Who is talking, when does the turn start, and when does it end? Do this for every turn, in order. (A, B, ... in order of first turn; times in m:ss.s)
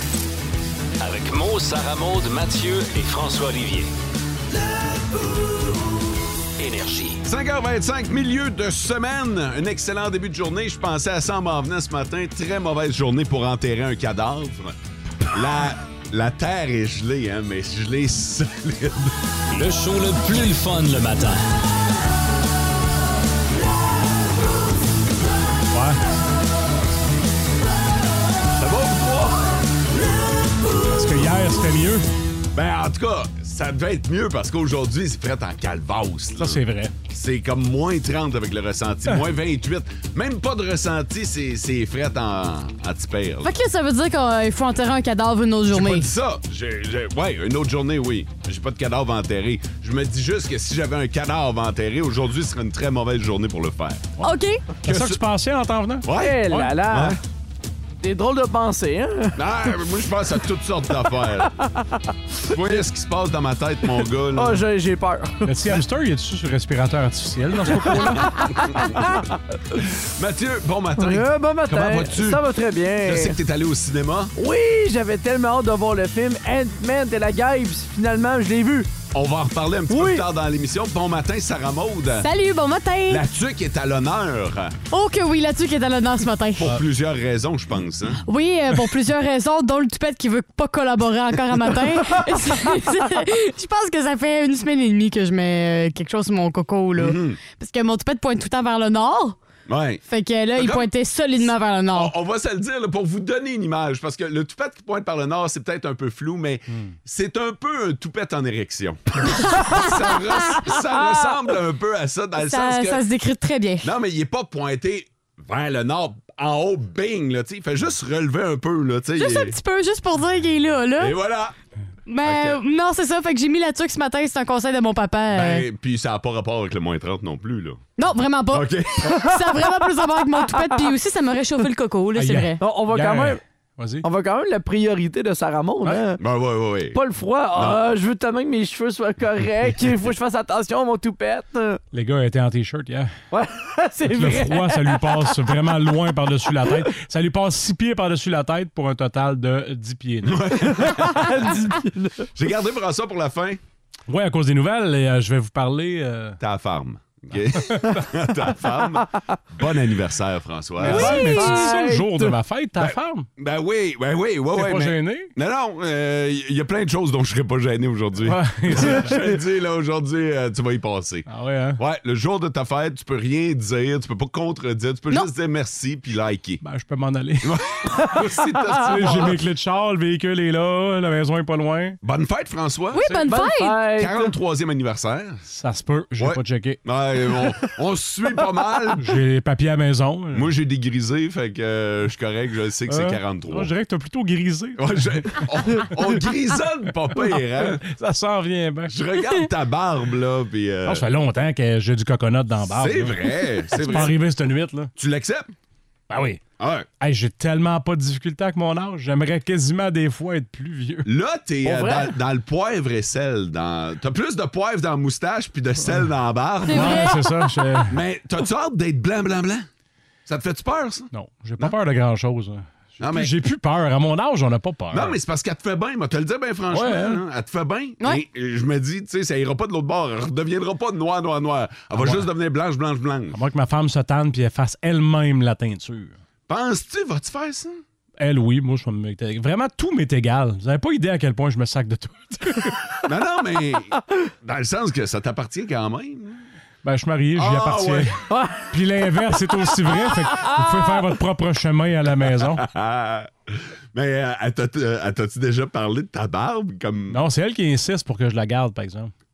0:01.0-0:03.9 A
0:06.6-0:07.2 A
0:07.2-0:14.8 B
0:15.3-0:19.1 B
0:19.5-0:21.4 A
0:25.7-0:26.0 C
0:28.5-0:29.5 B
0:30.9-0:32.0 C
0:32.5-0:43.5 B
0:36.4-0:36.9 C
0:43.4-0:46.1 D
0:45.7-0:54.1 B
0:54.2-0:54.6 D
0:54.8-0:56.8 C
0:54.9-0:55.2 B
0:56.0-0:57.2 B
0:56.2-0:57.2 E
0:58.0-0:59.4 E
0:59.4-1:01.5 B
1:01.6-1:02.0 E
1:02.5-1:04.6 B
1:04.3-1:05.5 E
1:05.4-1:08.8 C
1:10.0-1:12.4 B
1:11.0-1:13.3 E
1:13.0-1:14.3 B
1:14.4-1:18.9 E
1:19.1-1:22.3 B
1:19.9-1:20.2 E
1:22.2-1:23.2 D
1:23.1-1:24.7 B
1:24.9-1:26.7 D
1:26.6-1:28.2 B
1:28.3-1:39.4 D
1:37.0-1:37.4 B
1:39.7-1:40.0 B
1:40.1-1:42.1 D
1:40.6-1:40.9 B
1:41.9-1:53.0 B
1:49.5-1:50.1 D
1:52.4-1:53.9 D
1:53.8-1:59.5 B
1:59.2-2:01.2 D
2:01.0-2:01.6 B
2:02.1-2:05.6 D
2:02.2-2:02.6 B
2:05.3-2:07.8 B
2:08.0-2:12.6 D
2:08.5-2:09.2 B
2:12.1-2:14.0 C
2:12.6-2:13.4 E
2:14.0-2:16.2 E
2:16.2-2:17.0 B
2:16.9-2:21.8 E
2:17.5-2:17.8 B
2:21.9-2:23.1 C
2:23.3-2:25.9 E
2:24.0-2:30.7 C
2:30.2-2:31.3 B
2:30.6-2:32.3 E
2:32.3-2:33.6 B
2:34.1-2:36.4 C
2:36.4-2:41.2 B
2:37.5-2:38.0 C
2:40.8-2:43.2 C
2:40.8-2:42.4 E
2:41.0-2:41.6 D
2:42.8-2:51.3 B
2:44.5-2:45.3 C
2:48.2-2:49.2 C
2:51.3-2:51.8 C
2:51.8-2:56.6 B
2:56.6-2:57.6 C
2:57.4-2:59.4 B
2:58.7-3:02.0 C
2:59.0-2:59.3 E
3:02.0-3:03.3 B
3:02.9-3:03.8 D
3:03.2-3:04.3 E
3:03.9-3:05.4 B
3:05.5-3:06.8 C
3:06.2-3:09.1 B
3:09.0-3:10.5 C
3:10.3-3:13.7 B
3:12.9-3:14.8 C
3:14.8-3:17.8 B
3:17.7-3:18.9 C
3:18.9-3:21.0 B
3:20.8-3:24.9 C
3:22.6-3:24.2 B
3:25.0-3:25.5 B
3:26.1-3:26.4 C
3:26.6-3:26.9 B
3:27.0-3:31.1 C
3:31.0-3:37.0 B
3:31.6-3:32.1 E
3:36.7-3:38.0 C
3:36.7-3:37.2 D
3:37.9-3:39.7 B
3:40.3-3:41.7 B
3:41.1-3:45.2 C
3:43.0-3:43.3 B
3:44.9-3:53.4 B
3:46.7-3:47.2 C
3:51.9-3:52.3 C
3:53.3-3:56.1 C
3:56.5-3:57.8 B
3:58.2-4:03.0 C
4:03.0-4:06.4 B
4:06.8-4:08.2 C
4:07.3-4:08.1 B
4:08.3-4:08.7 E
4:08.7-4:12.6 C
4:10.1-4:10.7 E
4:12.4-4:17.2 B
4:17.1-4:19.1 C